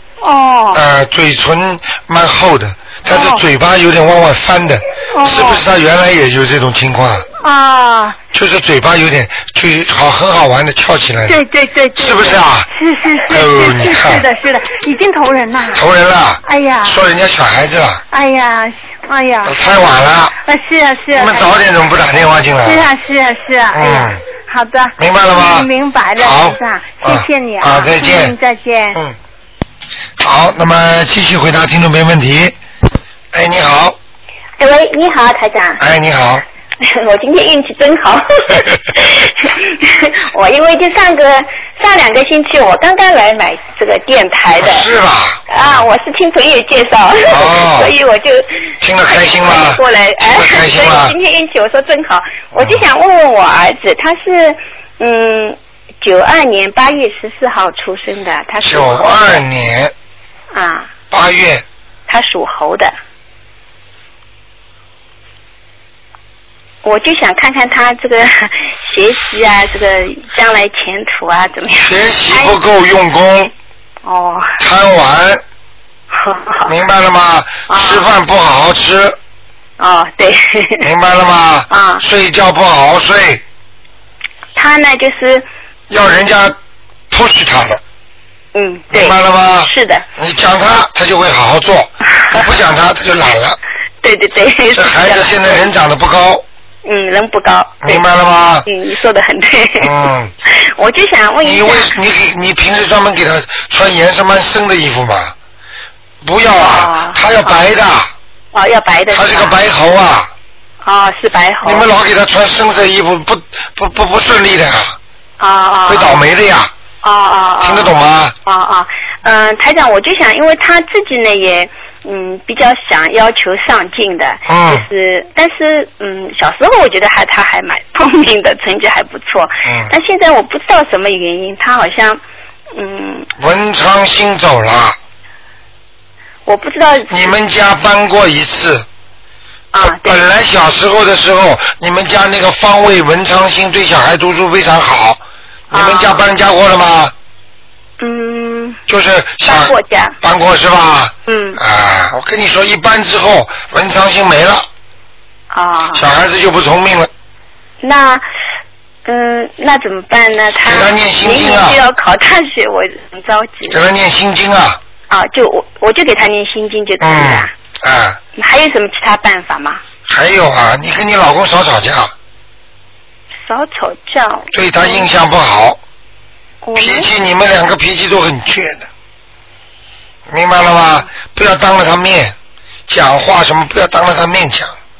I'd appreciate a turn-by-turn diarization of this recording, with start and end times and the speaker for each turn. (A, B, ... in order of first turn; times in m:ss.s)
0:00.2-0:00.8 A
0:00.7-0:07.2 B
0:03.1-0:03.4 A
0:05.1-0:05.6 A
0:07.4-0:08.2 A
0:08.3-0:11.4 B
0:11.2-0:15.8 A
0:11.9-0:12.7 B
0:13.3-0:14.2 B
0:15.7-0:18.0 B
0:16.4-0:17.0 A
0:18.1-0:21.6 A
0:19.4-0:20.4 B
0:21.1-0:22.9 B
0:22.6-0:29.0 A
0:23.7-0:24.2 B
0:25.0-0:28.3 B
0:30.2-0:32.6 B
0:33.3-0:34.0 B
0:34.6-0:35.8 C
0:35.8-0:36.4 B
0:36.8-0:44.9 C
0:44.6-0:45.9 B
0:45.5-0:59.4 C
0:47.3-0:47.9 B
0:48.8-0:51.1 B
0:52.5-0:52.9 B
0:58.6-0:59.9 B
1:00.5-1:00.9 C
1:01.1-1:01.6 B
1:02.1-1:02.9 C
1:06.8-1:12.6 C
1:11.8-1:13.5 B
1:14.0-1:14.6 C
1:14.6-1:15.4 B
1:16.1-1:16.7 C
1:16.6-1:19.2 B
1:17.7-1:18.1 C
1:19.8-1:20.9 C
1:20.8-1:23.4 B
1:21.7-1:22.0 C
1:24.5-1:25.5 C
1:25.9-1:26.6 B
1:27.1-1:27.8 B
1:28.5-1:30.0 C
1:28.9-1:33.6 B
1:32.1-1:32.5 C
1:34.0-1:35.7 C
1:34.7-1:36.4 B
1:36.8-1:38.0 C
1:37.8-1:38.7 B
1:38.7-1:40.0 C
1:39.8-1:40.3 B
1:40.5-1:41.9 C
1:41.4-1:45.3 B
1:46.2-1:48.1 B
1:46.5-1:47.6 C
1:48.5-1:49.6 C
1:49.1-1:50.3 B
1:50.8-1:51.9 C
1:51.6-1:55.0 B
1:55.4-1:56.3 C
1:55.8-1:56.7 B
1:57.0-2:12.2 C
1:57.6-1:58.3 B
2:04.5-2:04.8 B
2:09.6-2:09.9 B
2:12.7-2:13.3 C
2:13.4-2:15.0 B
2:16.4-2:17.4 C
2:17.1-2:18.9 B
2:19.7-2:20.3 C
2:19.8-2:27.1 B
2:25.7-2:26.2 C
2:28.0-2:28.8 C
2:28.9-2:34.7 B
2:29.4-2:30.2 C
2:31.3-2:31.6 C
2:35.5-2:36.0 C
2:35.9-2:37.1 B
2:37.8-2:38.2 C
2:39.0-2:43.8 C
2:40.6-2:41.8 B
2:43.7-2:44.8 B
2:45.1-2:47.5 C
2:47.0-2:48.2 B
2:48.4-2:49.8 C
2:50.1-2:52.1 B
2:53.4-2:55.1 C
2:54.5-2:55.8 B
2:56.6-2:57.1 C
2:56.8-2:58.9 B
3:00.3-3:02.4 B
3:02.9-3:04.7 B